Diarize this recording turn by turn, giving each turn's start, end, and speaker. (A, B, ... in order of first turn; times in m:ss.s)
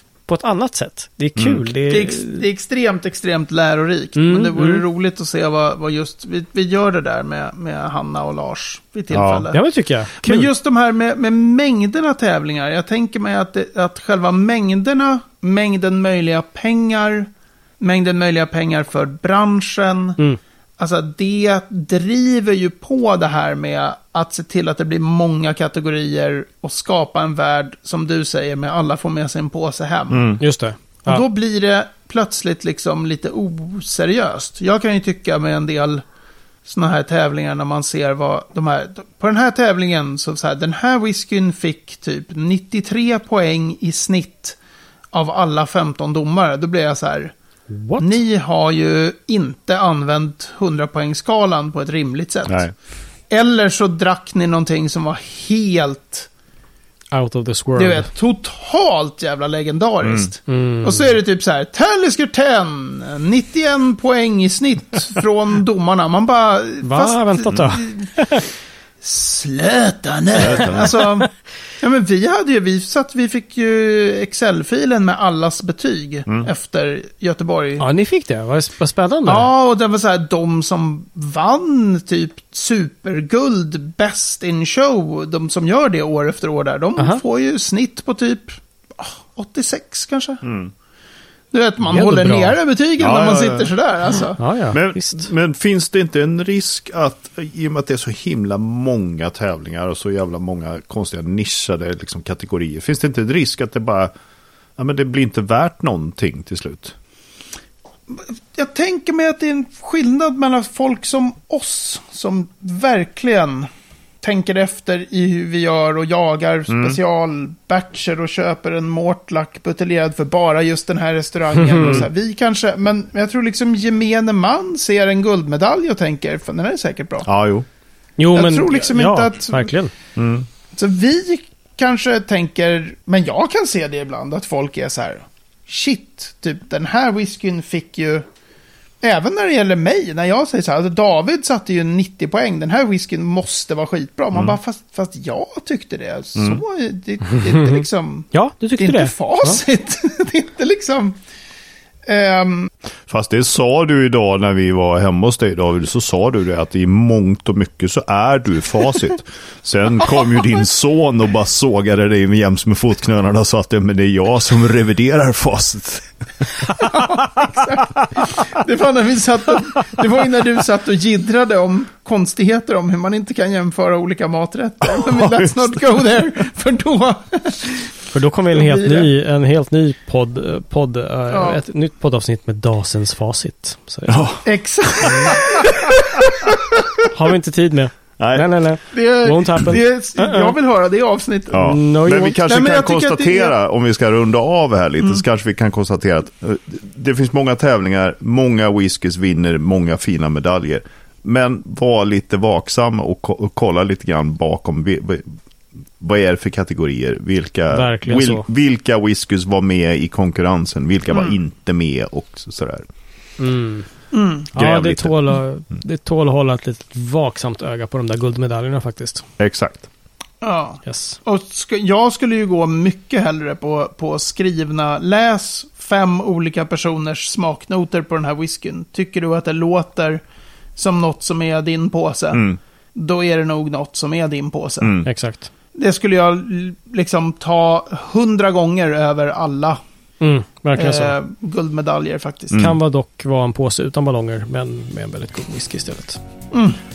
0:00.3-0:02.4 A
0:01.4-0:01.6 B
0:01.9-0:09.6 C
0:04.2-0:04.8 A
0:09.1-0:09.5 B
0:09.5-0:10.5 A
0:10.2-0:20.2 C
0:20.8-0:30.3 C
0:30.1-0:30.4 B
0:30.4-0:31.2 A
0:31.1-0:36.0 C
0:36.6-0:44.6 C
0:45.1-0:47.3 C
0:47.7-0:48.2 A
0:48.0-0:52.7 C
0:52.5-0:52.7 B
0:53.3-0:56.3 C
0:57.1-0:58.1 A
0:57.8-1:08.4 C
1:00.0-1:00.3 B
1:00.5-1:01.1 A
1:06.8-1:08.5 A
1:09.0-1:17.8 C
1:10.4-1:11.0 B
1:10.5-1:11.2 A
1:17.8-1:19.5 A
1:19.3-1:30.4 C
1:30.4-1:30.7 B
1:31.5-1:34.4 C
1:31.8-1:32.6 A
1:33.0-1:33.7 B
1:34.4-1:35.3 A
1:34.7-1:44.1 B
1:44.8-1:47.0 B
1:48.1-1:53.7 C
1:54.2-2:07.3 C
1:56.7-1:57.0 B
2:01.6-2:02.0 A
2:01.8-2:02.1 B
2:07.2-2:07.7 B
2:08.2-2:09.9 A
2:08.3-2:09.7 C
2:10.2-2:10.5 B
2:10.7-2:18.2 C
2:19.0-2:31.2 C
2:24.3-2:24.6 B
2:26.4-2:26.6 B
2:27.3-2:29.6 A
2:32.1-2:32.7 C
2:33.1-2:46.1 B
2:46.7-2:58.0 C
2:54.8-2:55.8 B
2:58.1-3:04.3 A
2:58.5-2:59.1 C
3:01.3-3:01.6 C
3:04.1-3:04.4 B
3:04.4-3:05.8 C
3:05.0-3:06.5 B
3:05.0-3:05.3 A
3:07.1-3:10.5 A
3:08.2-3:08.5 B
3:08.9-3:11.8 C
3:11.5-3:25.3 B
3:11.6-3:12.4 A
3:12.4-3:13.6 C
3:26.0-3:32.9 B
3:27.7-3:28.5 A
3:31.1-3:31.4 C
3:33.4-3:33.9 A
3:34.1-3:34.5 C
3:34.5-3:35.2 B
3:34.5-3:39.3 A
3:39.4-3:39.9 B
3:40.4-3:50.2 C
3:40.8-3:41.2 A
3:50.8-3:55.0 C
3:52.3-3:52.6 B
3:54.8-3:55.1 B
3:55.0-3:55.5 A
3:55.7-3:59.8 C
4:00.2-4:01.2 A
4:00.8-4:02.6 C
4:02.5-4:02.8 B
4:02.6-4:06.2 A
4:06.5-4:06.8 C